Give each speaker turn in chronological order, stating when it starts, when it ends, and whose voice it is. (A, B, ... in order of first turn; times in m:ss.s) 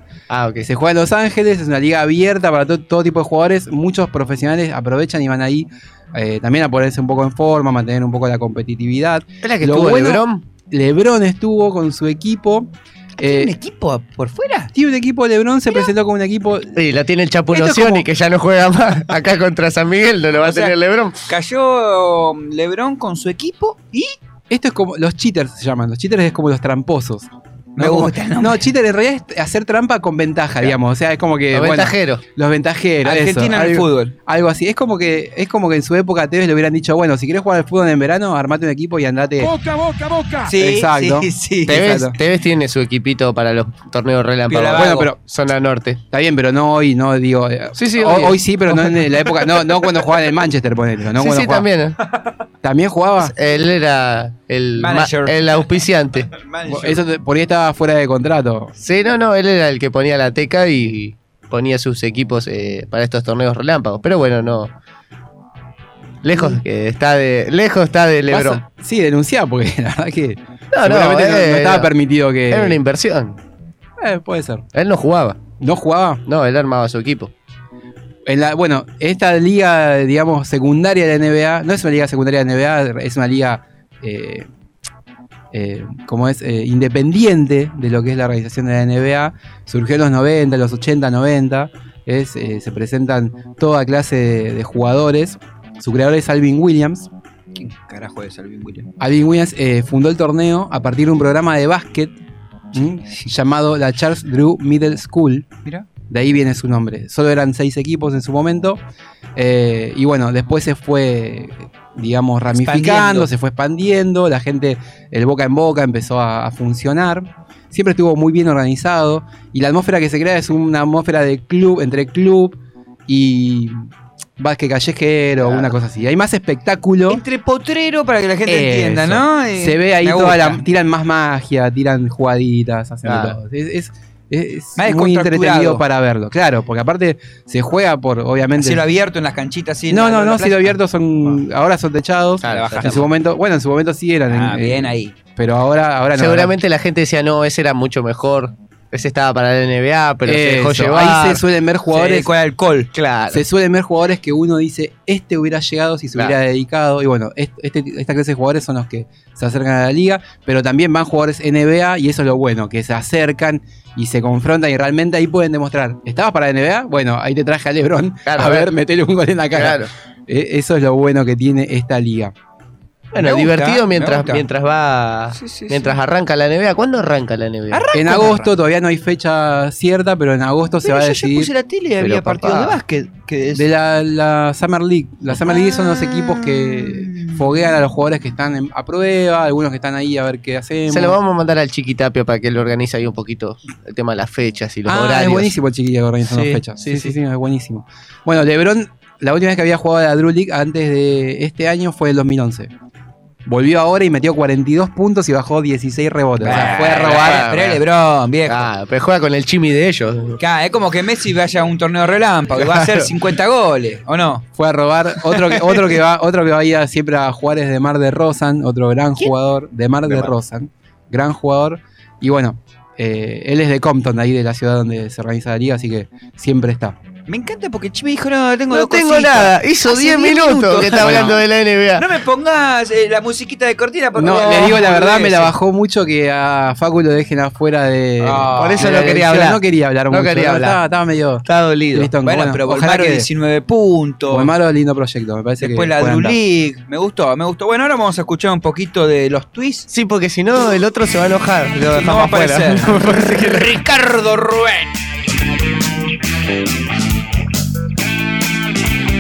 0:00.3-0:00.7 A
0:00.6-0:13.5 B
0:09.4-0:10.4 A
0:13.2-0:14.7 C
0:14.7-0:16.7 B
0:16.8-0:21.2 A
0:17.6-0:18.0 C
0:20.4-0:20.8 C
0:21.3-0:24.2 C
0:24.5-0:39.6 B
0:27.8-0:28.7 C
0:31.5-0:32.2 A
0:33.0-0:34.1 C
0:40.4-0:42.1 C
0:40.5-0:42.1 B
0:41.7-0:46.0 A
0:44.5-0:45.1 C
0:44.7-0:45.2 B
0:46.1-0:51.7 B
0:47.8-0:48.4 A
0:51.2-0:52.0 A
0:52.6-0:53.3 B
0:53.2-0:56.3 A
0:54.8-0:57.0 C
0:56.7-0:58.7 B
0:58.8-1:04.7 A
1:06.2-1:08.6 A
1:08.3-1:12.8 B
1:10.7-1:11.9 A
1:12.5-1:13.4 A
1:14.0-1:14.6 B
1:14.7-1:15.4 A
1:15.6-1:16.2 B
1:16.3-1:17.3 A
1:18.3-1:24.5 B
1:25.5-1:37.1 B
1:37.6-1:38.9 C
1:39.0-1:42.2 B
1:42.7-1:45.5 B
1:42.8-1:43.3 C
1:46.1-1:48.8 B
1:49.4-2:03.9 B
1:52.5-1:53.3 C
2:04.4-2:07.2 B
2:05.4-2:05.8 A
2:07.1-2:10.6 C
2:08.5-2:18.8 B
2:13.0-2:13.4 A
2:14.8-2:15.8 C
2:18.6-2:21.4 C
2:19.9-2:26.6 B
2:22.4-2:23.1 A
2:22.5-2:23.1 C
2:24.3-2:25.2 C
2:26.1-2:31.4 A
2:30.3-2:32.3 B
2:31.9-2:32.9 C
2:32.9-2:33.4 A
2:33.3-2:52.3 B
2:48.3-2:48.7 A
2:49.5-2:49.9 A
2:53.1-2:57.8 A
2:53.2-2:54.5 C
2:55.3-2:56.0 C
2:57.7-2:58.5 C
2:57.9-3:01.5 B
3:00.8-3:03.7 C
3:02.0-3:02.8 A
3:03.6-3:11.2 B
3:05.5-3:07.7 C
3:10.9-3:15.5 A
3:14.9-3:22.7 B
3:16.2-3:17.2 A
3:23.5-3:27.5 B
3:26.4-3:28.7 C
3:26.5-3:27.8 A
3:28.5-3:30.4 A
3:30.4-3:34.4 C
3:32.5-3:33.1 A
3:34.6-3:47.0 B
3:47.3-3:51.4 C
3:48.7-3:52.0 A
3:51.0-3:51.4 B
3:52.0-3:55.5 C
3:54.2-4:03.3 B
3:58.2-3:59.0 C
3:58.6-4:00.8 A
4:01.4-4:02.1 A
4:02.2-4:04.5 C
4:04.3-4:06.4 B
4:05.6-4:09.9 C
4:09.9-4:13.8 A
4:11.9-4:14.9 C